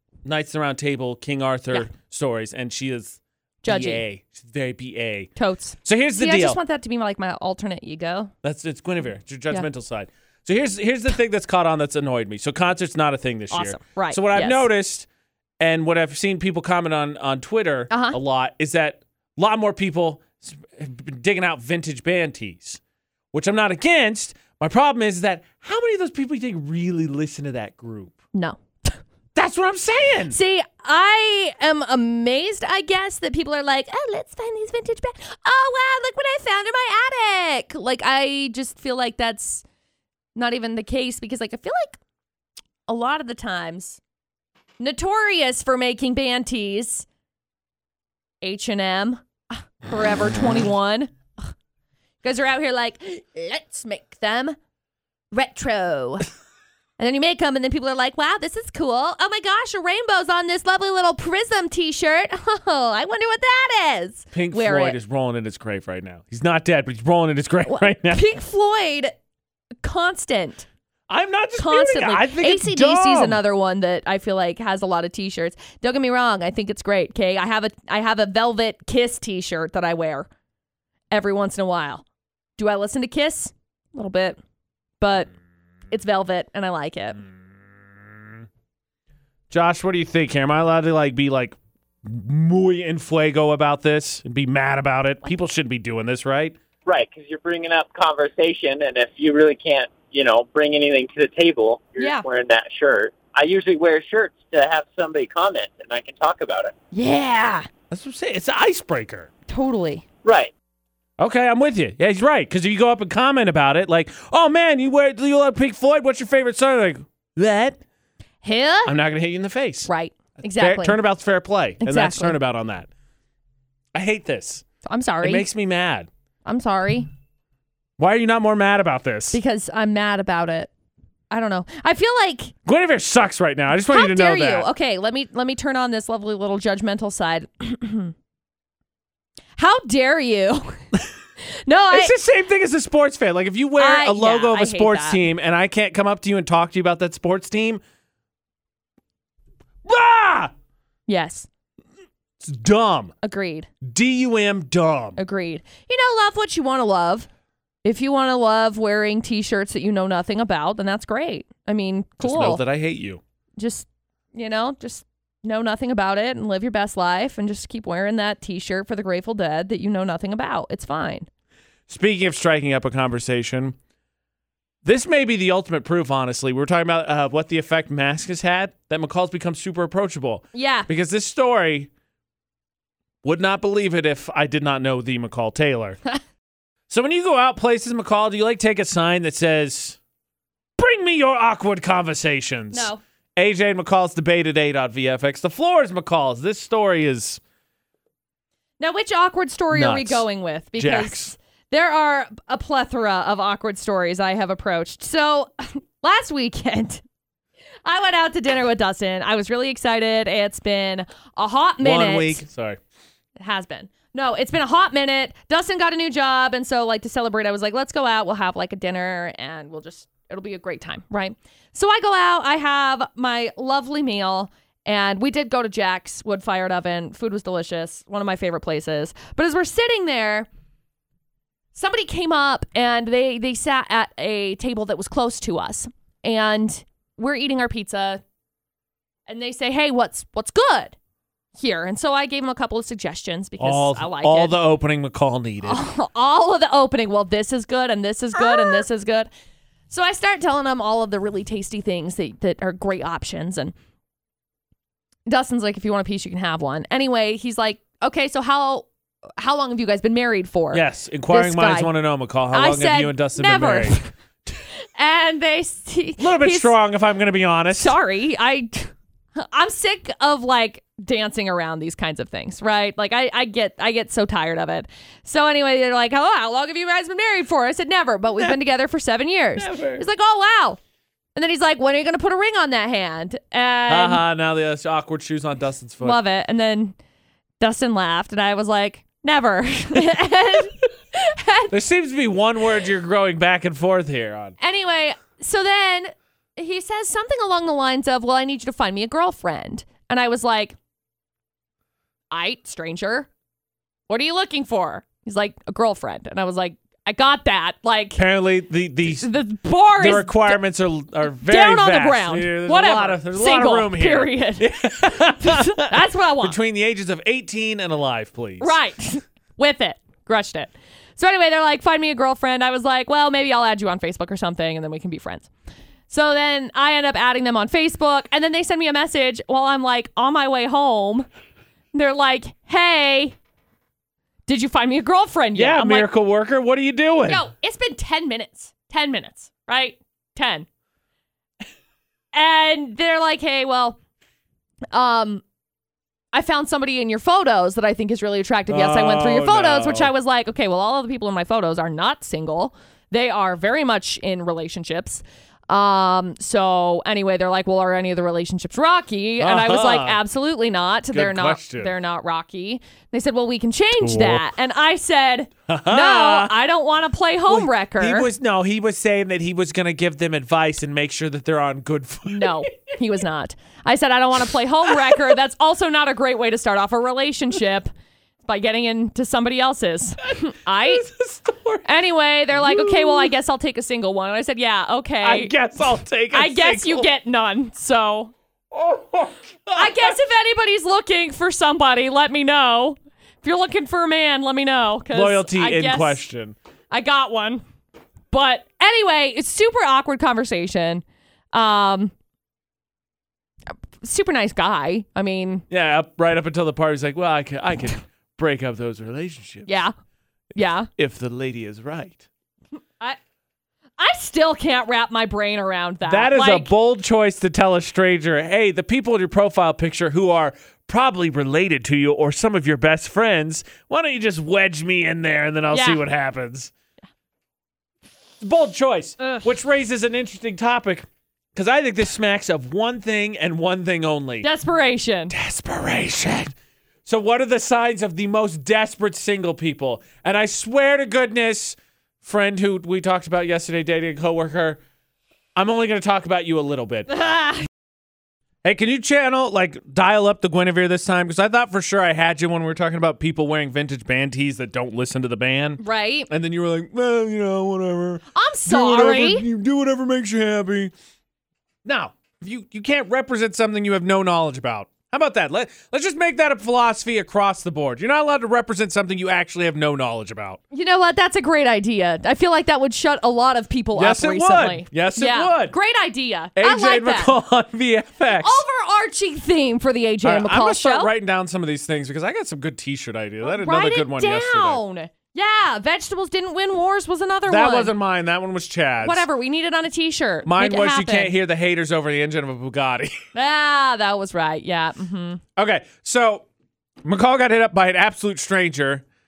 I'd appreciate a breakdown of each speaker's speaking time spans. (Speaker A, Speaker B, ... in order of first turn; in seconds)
Speaker A: 0.2-5.3, 5.8-6.6, 8.4-15.1, 15.6-22.8, 23.3-28.1, 29.4-30.4, 64.3-68.2, 71.1-73.4, 89.5-96.6, 107.9-109.3, 111.2-117.8, 118.9-119.9, 120.5-122.9, 123.9-124.6, 125.2-126.1, 128.0-129.4, 132.7-134.7, 141.9-147.8, 149.8-150.5, 152.4-153.1, 153.8-155.2, 162.2-163.2, 171.9-173.8, 174.8-181.9, 183.2-186.0, 186.9-190.0, 190.8-197.4, 199.7-200.2, 200.8-201.3, 211.8-212.8, 243.6-245.8, 248.4-248.8, 260.7-264.0, 266.2-268.0, 279.6-280.0, 283.9-286.2, 291.7-294.6, 308.2-309.3, 310.0-318.8, 335.6-337.4, 348.7-350.1, 359.4-360.2, 361.1-361.9, 364.0-364.4, 365.7-366.5, 367.5-372.9, 380.8-381.8, 382.5-383.3, 385.2-387.1, 388.7-390.1, 395.1-396.6, 405.7-409.8, 411.0-412.2, 416.1-426.7, 428.4-434.5, 435.3-444.8, 445.6-447.1, 448.6-460.9, 461.9-470.6, 473.9-475.8, 476.6-478.6, 480.2-484.8, 487.5-489.2, 490.5-493.2, 495.6-496.5, 497.1-499.1
Speaker B: 3.6-4.0, 5.4-8.3, 13.5-14.7, 17.9-18.2, 28.3-28.9, 30.3-39.6, 40.4-42.0, 42.9-44.0, 44.8-47.1, 48.4-51.5, 52.2-54.6, 55.3-56.3, 57.0-65.0, 67.7-69.2, 69.8-70.7, 71.6-80.3, 81.1-82.0, 82.6-84.4, 85.0-85.3, 85.9-87.2, 102.0-102.3, 106.9-107.7, 109.5-110.0, 118.4-119.0, 119.9-121.0, 121.8-122.4, 124.8-125.5, 126.5-127.1, 129.3-130.7, 131.3-132.5, 133.9-138.1, 139.6-140.8, 141.6-142.1, 143.8-145.2, 151.1-151.5, 153.2-153.7, 155.2-157.3, 157.8-162.6, 163.6-171.3, 180.5-180.9, 192.7-193.0, 198.8-207.0, 207.8-212.4, 213.4-230.5, 231.8-238.2, 239.3-240.9, 241.6-244.6, 245.6-249.3, 249.9-253.7, 255.3-258.9, 259.4-261.9, 262.5-264.1, 265.0-266.8, 267.7-280.8, 281.4-284.2, 286.0-286.9, 287.6-291.8, 294.6-300.8, 302.3-303.3, 304.1-308.2, 309.1-310.6, 311.4-316.6, 318.6-325.5, 326.1-331.3, 331.9-333.4, 334.5-336.1, 337.3-340.7, 342.3-344.0, 344.9-345.4, 346.3-368.3, 372.3-377.9, 378.4-381.1, 381.9-385.5, 386.3-388.3, 389.8-396.2, 396.9-397.6, 398.3-402.1, 404.0-405.6, 409.7-409.9, 410.6-410.9, 414.0-416.7, 425.7-426.0, 434.4-435.3, 447.2-447.7, 455.8-456.3, 458.4-459.4, 470.7-477.3, 478.4-481.1, 483.4-487.9, 489.0-491.4, 493.4-495.4
Speaker C: 96.9-106.7, 110.2-110.5